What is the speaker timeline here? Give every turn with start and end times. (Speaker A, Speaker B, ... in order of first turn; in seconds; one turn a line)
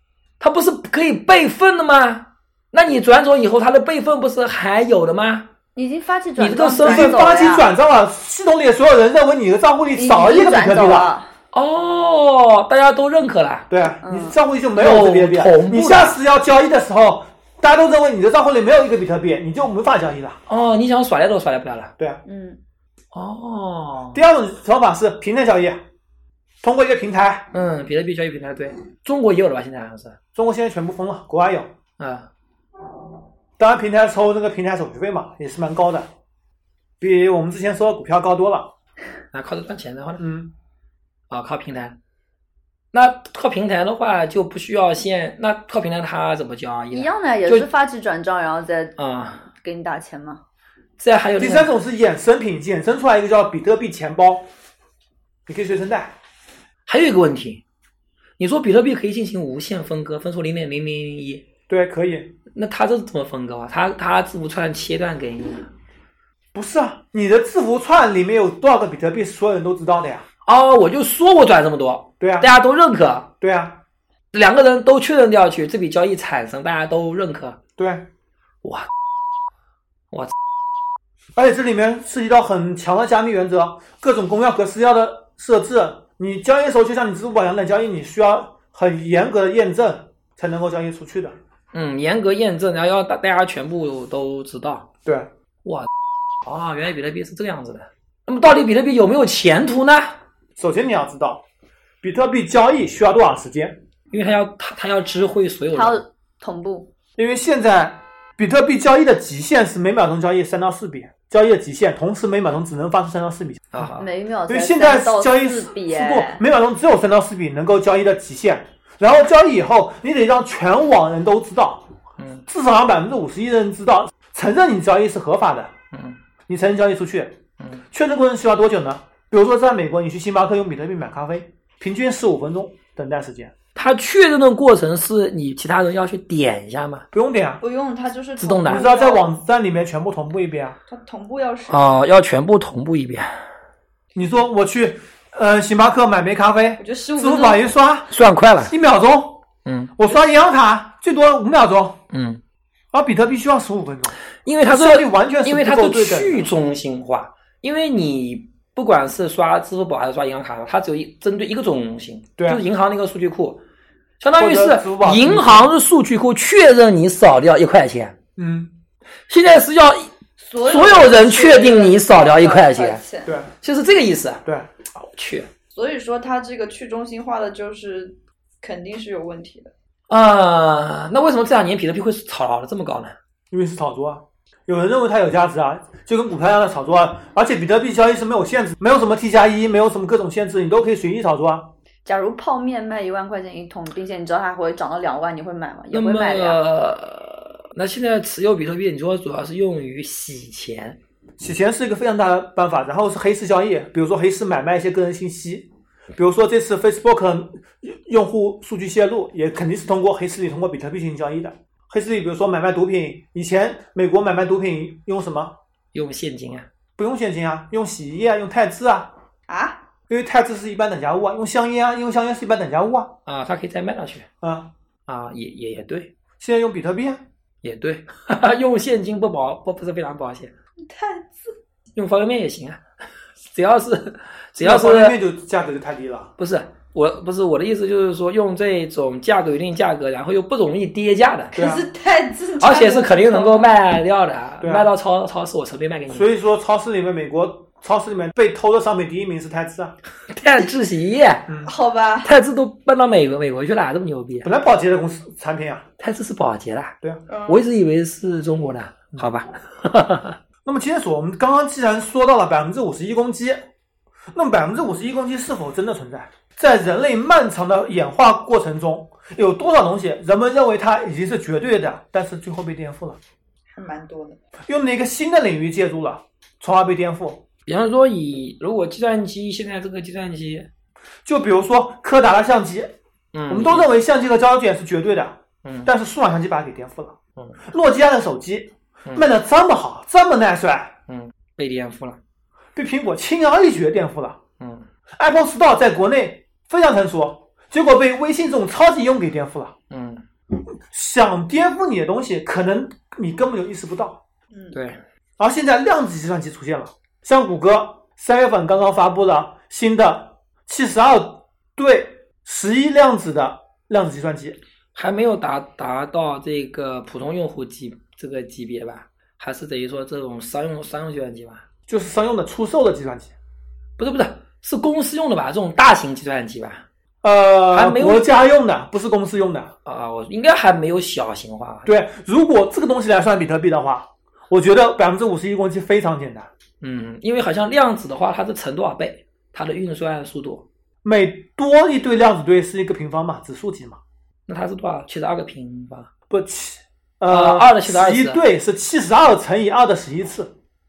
Speaker A: 0.4-5.5
Speaker B: 5.7-7.7
Speaker A: 6.4-7.2
Speaker C: 6.8-11.1
Speaker B: 9.9-11.3
Speaker A: 11.5-13.7
Speaker C: 13.7-20.4
Speaker B: 14.0-14.3
Speaker A: 14.7-16.2
Speaker A: 20.5-21.9
Speaker B: 22.2-22.6
Speaker A: 23.1-24.2
Speaker C: 24.1-25.8
Speaker C: 26.6-27.5
Speaker A: 27.5-30.2
Speaker C: 30.3-31.7
Speaker A: 32.0-32.3
Speaker C: 33.6-36.1
Speaker C: 37.0-38.7
Speaker A: 39.3-40.2
Speaker C: 40.2-40.5
Speaker A: 41.3-42.0
Speaker A: 42.9-47.7
Speaker B: 46.9-48.9
Speaker A: 49.0-49.5
Speaker B: 49.5-50.4
Speaker A: 51.0-51.7
Speaker C: 51.4-54.5
Speaker C: 55.5-56.1
Speaker A: 56.9-57.6
Speaker A: 58.4-61.4
Speaker C: 61.7-62.3
Speaker A: 62.5-65.7
Speaker C: 66.5-70.2
Speaker A: 70.5-73.3
Speaker C: 72.2-72.5
Speaker C: 73.4-73.8
Speaker A: 74.3-77.6
Speaker C: 77.8-78.1
Speaker A: 78.6-78.9
Speaker C: 81.3-91.3
Speaker A: 91.7-94.9
Speaker C: 95.0-95.3
Speaker A: 96.4-100.2
Speaker C: 100.6-101.4
Speaker C: 102.0-103.8
Speaker A: 104.1-106.0
Speaker B: 105.7-106.9
Speaker C: 107.2-113.9
Speaker A: 113.7-114.1
Speaker B: 114.0-116.4
Speaker C: 114.5-121.9
Speaker C: 122.5-125.7
Speaker A: 125.9-126.2
Speaker C: 126.5-127.4
Speaker C: 127.9-133.5
Speaker A: 133.7-137.1
Speaker C: 137.1-137.6
Speaker B: 137.6-139.3
Speaker A: 138.4-138.9
Speaker C: 138.6-140.8
Speaker B: 140.9-141.9
Speaker A: 141.7-143.4
Speaker C: 144.1-149.4
Speaker B: 146.8-147.6
Speaker A: 148.1-148.7
Speaker A: 149.6-149.9
Speaker C: 150.0-152.0
Speaker A: 152.1-152.4
Speaker C: 152.9-156.5
Speaker A: 154.4-163.6
Speaker C: 162.4-162.6
Speaker A: 164.2-168.2
Speaker C: 164.4-165.7
Speaker C: 168.4-168.7
Speaker A: 169.3-170.1
Speaker B: 170.4-173.3
Speaker A: 170.6-173.0
Speaker C: 173.2-173.5
Speaker A: 173.6-174.4
Speaker A: 174.9-175.5
Speaker B: 175.7-179.7
Speaker A: 180.1-183.1
Speaker C: 183.5-191.7
Speaker B: 192.0-196.6
Speaker A: 195.9-201.0
Speaker C: 201.4-215.6
Speaker A: 215.9-216.7
Speaker C: 217.0-219.1
Speaker B: 219.5-219.8
Speaker C: 220.1-223.2
Speaker A: 223.2-224.3
Speaker C: 224.4-224.7
Speaker A: 225.1-226.1
Speaker C: 226.4-227.2
Speaker A: 227.6-230.5
Speaker B: 230.8-231.5
Speaker A: 231.9-232.8
Speaker A: 233.5-235.2
Speaker C: 234.6-236.3
Speaker A: 236.4-241.6
Speaker B: 241.5-243.7
Speaker C: 241.5-241.8
Speaker A: 242.6-246.3
Speaker C: 244.6-244.9
Speaker C: 246.1-249.9
Speaker A: 250.3-251.5
Speaker B: 251.6-252.3
Speaker A: 252.2-254.5
Speaker C: 254.4-255.8
Speaker A: 256.0-260.4
Speaker B: 257.3-257.6
Speaker C: 260.6-263.6
Speaker C: 264.3-273.2
Speaker B: 273.7-274.4
Speaker C: 274.6-277.4
Speaker A: 277.7-280.7
Speaker C: 281.2-282.9
Speaker A: 283.3-283.9
Speaker C: 283.5-291.0
Speaker A: 285.6-285.9
Speaker A: 291.1-292.2
Speaker C: 292.7-294.4
Speaker A: 294.6-294.9
Speaker C: 295.1-299.8
Speaker A: 299.9-300.2
Speaker C: 300.6-304.2
Speaker A: 304.7-305.0
Speaker C: 305.4-314.6
Speaker A: 314.9-321.7
Speaker C: 321.9-323.3
Speaker A: 324.0-326.9
Speaker C: 327.2-329.7
Speaker A: 327.7-328.3
Speaker A: 329.8-331.9
Speaker C: 331.8-336.5
Speaker A: 336.8-340.6
Speaker C: 341.0-344.0
Speaker A: 344.5-346.1
Speaker C: 346.3-350.5
Speaker A: 347.3-348.4